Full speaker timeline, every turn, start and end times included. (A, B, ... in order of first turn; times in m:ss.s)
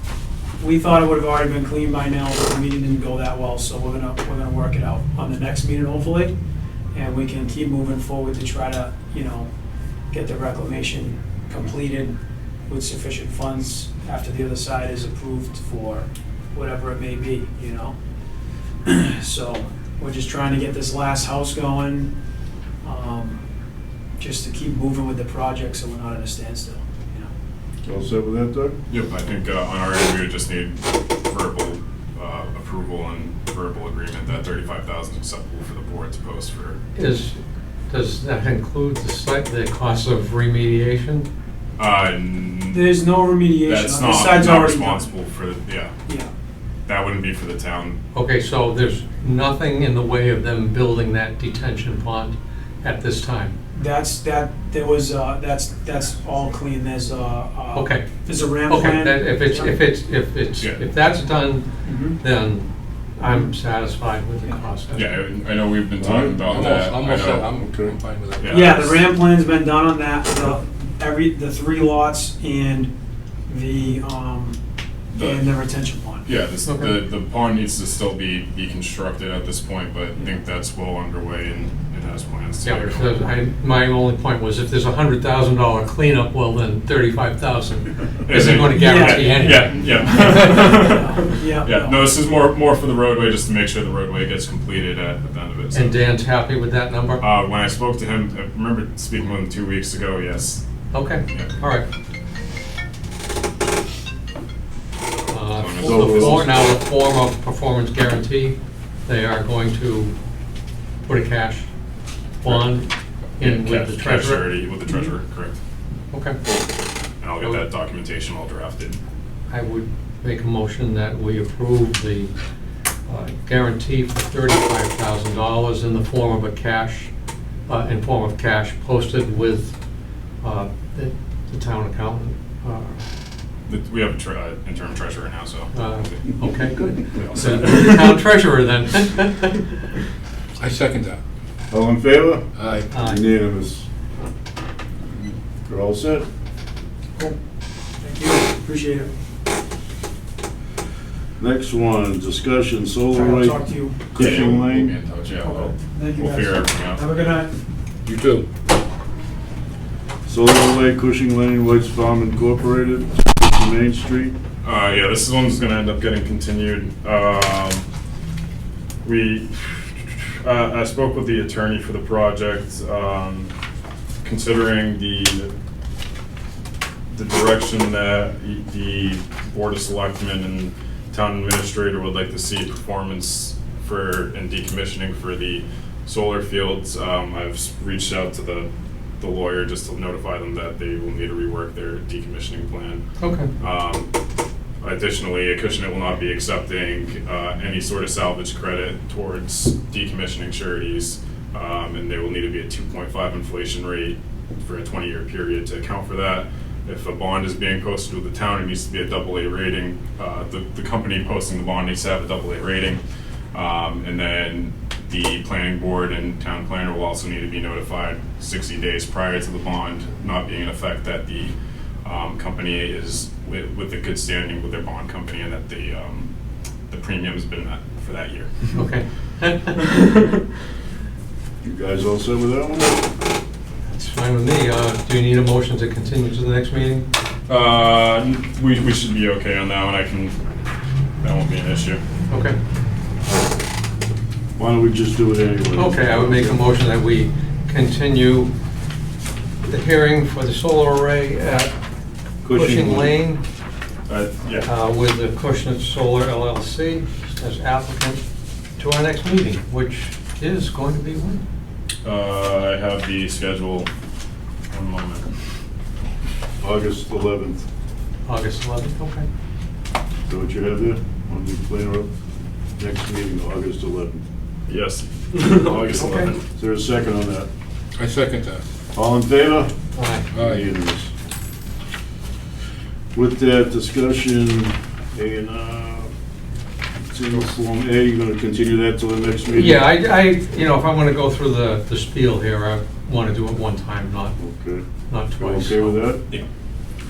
0:00.6-0:06.4 A
0:06.9-0:09.5 A
0:10.1-0:12.2 A
0:12.7-0:18.0 A
0:18.8-0:22.1 A
0:22.8-0:23.4 A
0:24.2-0:27.3 A
0:27.8-0:28.8 B
0:28.9-0:36.8 C
0:37.0-0:37.4 D
0:37.9-0:41.3 D
0:41.8-0:42.9 C
0:42.7-0:45.1 A
0:43.6-0:45.9 C
0:46.9-0:48.0 C
0:48.1-0:53.6 D
0:53.7-0:59.7 A
0:57.8-0:58.1 D
0:58.7-1:05.2 D
1:01.8-1:02.2 A
1:04.9-1:07.6 C
1:06.0-1:06.4 B
1:06.4-1:08.9 E
1:07.6-1:07.9 B
1:08.4-1:09.0 C
1:08.5-1:12.9 A
1:13.5-1:14.6 A
1:15.1-1:15.5 C
1:15.2-1:16.3 A
1:16.2-1:23.3 C
1:16.7-1:17.0 D
1:22.6-1:30.9 D
1:28.2-1:36.0 C
1:28.7-1:32.1 A
1:35.7-1:37.2 D
1:37.2-1:40.6 C
1:40.9-1:41.8 D
1:41.3-1:41.6 C
1:45.1-1:46.7 C
1:45.3-1:50.1 D
1:45.8-1:46.5 B
1:51.1-1:51.7 D
1:52.4-1:54.5 D
1:52.4-1:52.7 C
1:53.4-1:55.6 C
1:56.1-1:56.5 D
1:57.2-1:59.0 C
1:59.5-2:02.3 D
2:03.1-2:07.1 D
2:07.7-2:09.8 D
2:10.4-2:13.0 D
2:13.7-2:16.3 C
2:15.7-2:19.8 D
2:17.1-2:18.0 C
2:20.6-2:21.2 E
2:21.7-2:23.9 B
2:22.6-2:22.9 E
2:22.9-2:23.2 D
2:25.7-2:26.2 B
2:28.0-2:29.1 A
2:31.4-2:33.6 B
2:33.1-2:34.0 A
2:34.1-2:35.0 B
2:34.2-2:37.0 C
2:35.4-2:37.5 A
2:38.1-2:38.5 E
2:40.3-2:44.4 B
2:44.6-2:47.8 C
2:49.0-2:53.5 C
2:54.2-2:55.5 C
2:57.1-3:08.7 C
3:09.2-3:13.0 C
3:13.2-3:13.5 D
3:13.6-3:14.1 C
3:14.8-3:33.0 C
3:33.5-3:46.3 C
3:46.9-3:48.7 C
3:48.7-3:50.0 D
3:51.6-3:53.0 B
3:53.9-3:57.1 D
3:57.5-4:00.4 C
4:01.2-4:02.0 C
4:02.3-4:02.6 D
4:04.6-4:06.6 B
4:05.8-4:08.5 D
4:09.6-4:11.7 D
4:12.4-4:13.2 B
4:12.5-4:13.4 D
4:14.1-4:14.7 C
4:14.6-4:18.2 D
4:18.8-4:21.4 D
4:22.0-4:23.9 C
4:24.7-4:25.3 C
4:26.6-4:27.6 B
4:28.3-4:29.3 D
4:30.3-4:32.1 B
4:32.8-4:34.2 B
4:34.7-4:36.4 C
4:35.4-4:36.3 D
4:36.6-4:37.5 B
4:38.0-4:38.6 E
4:38.9-4:39.7 B
4:40.0-4:40.3 D
4:40.3-4:40.7 E
4:40.4-4:41.1 B
4:43.1-4:46.1 B
4:47.1-4:49.8 B
4:49.5-4:54.4 D
4:54.4-4:54.8 B
4:55.1-4:56.1 D
4:55.4-4:56.2 B